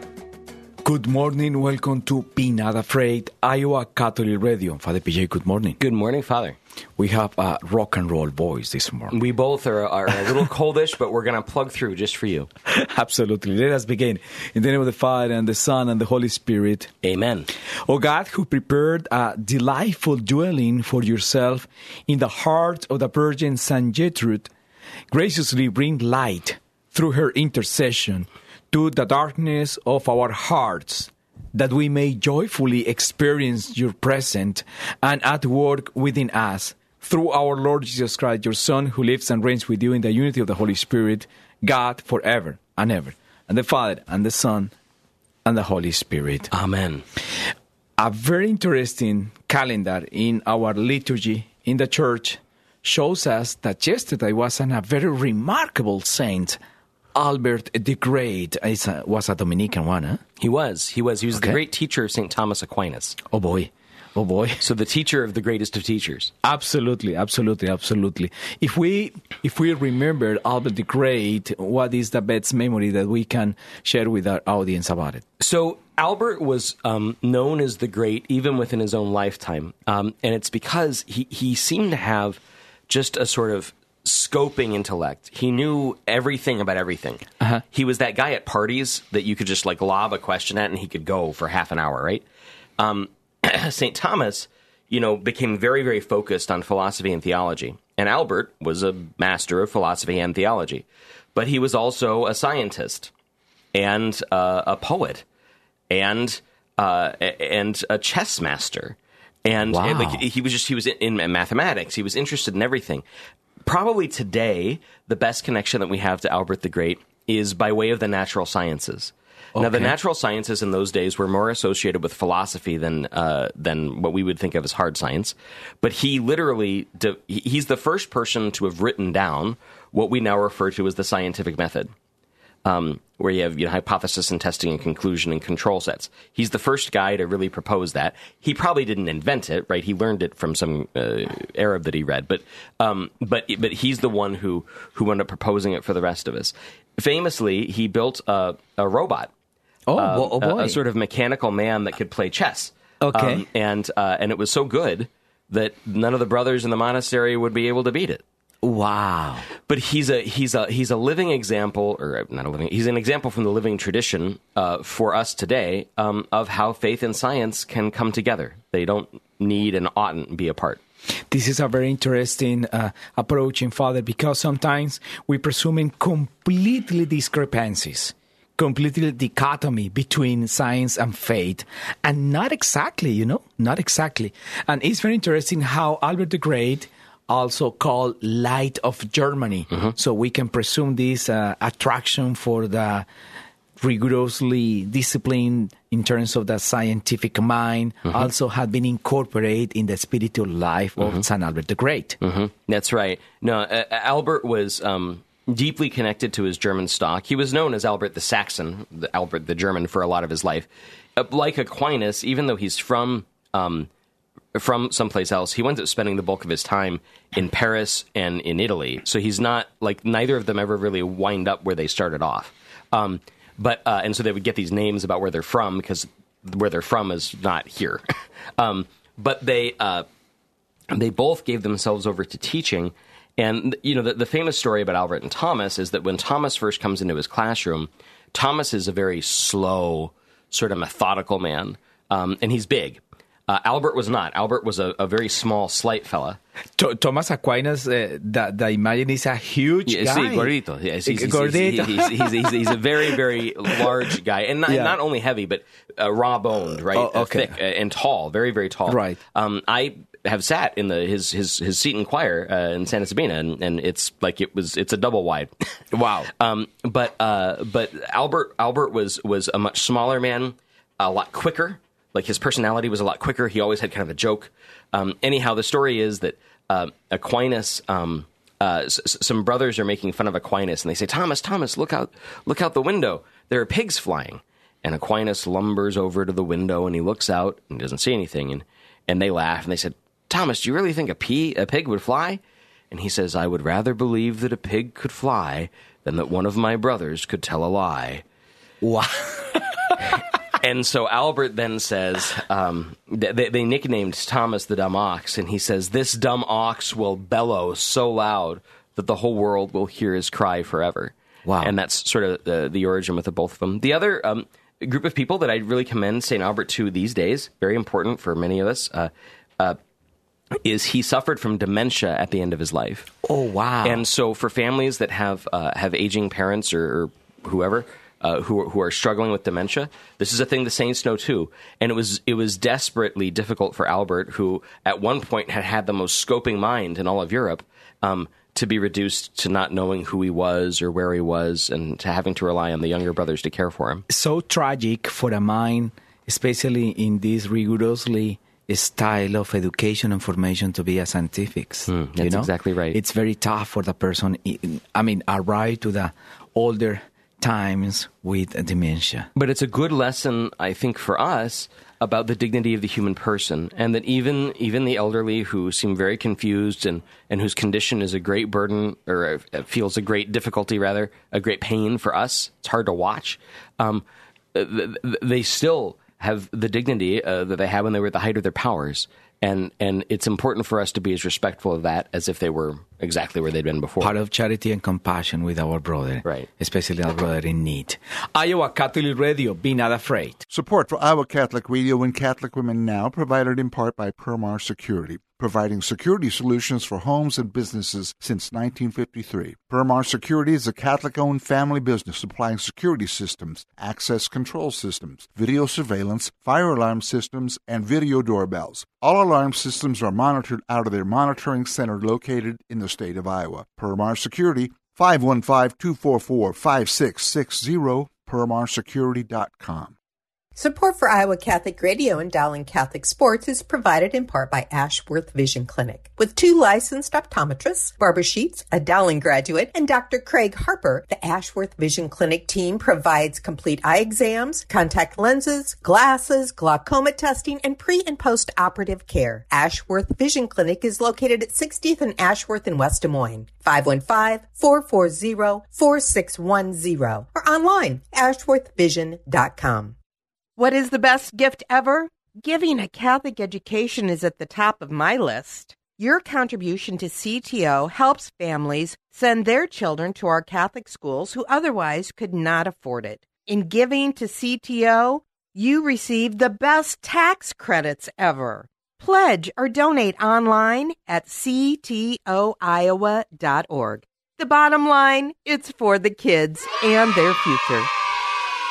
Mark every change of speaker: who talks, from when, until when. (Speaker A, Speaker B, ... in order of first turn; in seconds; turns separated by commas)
Speaker A: 0.8-5.8, Speaker B: 5.8-6.5, Speaker A: 7.0-9.2, Speaker B: 9.1-12.5, Speaker A: 12.7-16.9, Speaker B: 17.0-17.5, Speaker A: 17.9-24.5, Speaker A: 25.1-44.7, Speaker A: 45.5-46.5, Speaker B: 46.5-47.0, Speaker A: 48.0-56.6, Speaker A: 57.1-60.2, Speaker B: 60.4-63.2, Speaker A: 63.3-64.6, Speaker B: 64.6-66.3, Speaker A: 66.4-75.2, Speaker B: 75.4-92.2, Speaker B: 92.8-103.1, Speaker B: 103.7-105.2, Speaker B: 105.9-113.0, Speaker A: 109.7-110.2, Speaker B: 113.6-131.9, Speaker A: 119.5-119.9, Speaker B: 132.6-149.3, Speaker A: 149.9-150.8, Speaker B: 149.9-158.2, Speaker A: 153.0-153.4, Speaker A: 158.6-159.5, Speaker B: 159.7-170.8, Speaker A: 171.3-193.1, Speaker A: 193.8-202.2, Speaker B: 202.2-213.9, Speaker B: 214.5-228.0, Speaker B: 228.6-230.1, Speaker B: 230.9-246.4, Speaker A: 246.8-250.5, Speaker B: 249.9-265.5, Speaker A: 251.0-253.2, Speaker A: 254.7-255.0, Speaker A: 256.9-257.6, Speaker A: 258.9-259.2, Speaker A: 265.9-266.3, Speaker B: 266.4-298.2, Speaker A: 298.8-300.0, Speaker B: 300.6-319.8, Speaker A: 311.4-311.7, Speaker B: 320.6-323.1, Speaker A: 323.2-324.0, Speaker B: 323.8-344.0, Speaker A: 344.1-359.3, Speaker B: 351.9-353.0, Speaker B: 359.4-384.1, Speaker A: 384.0-390.4, Speaker C: 390.5-419.9, Speaker D: 420.6-450.0, Speaker E: 450.6-477.9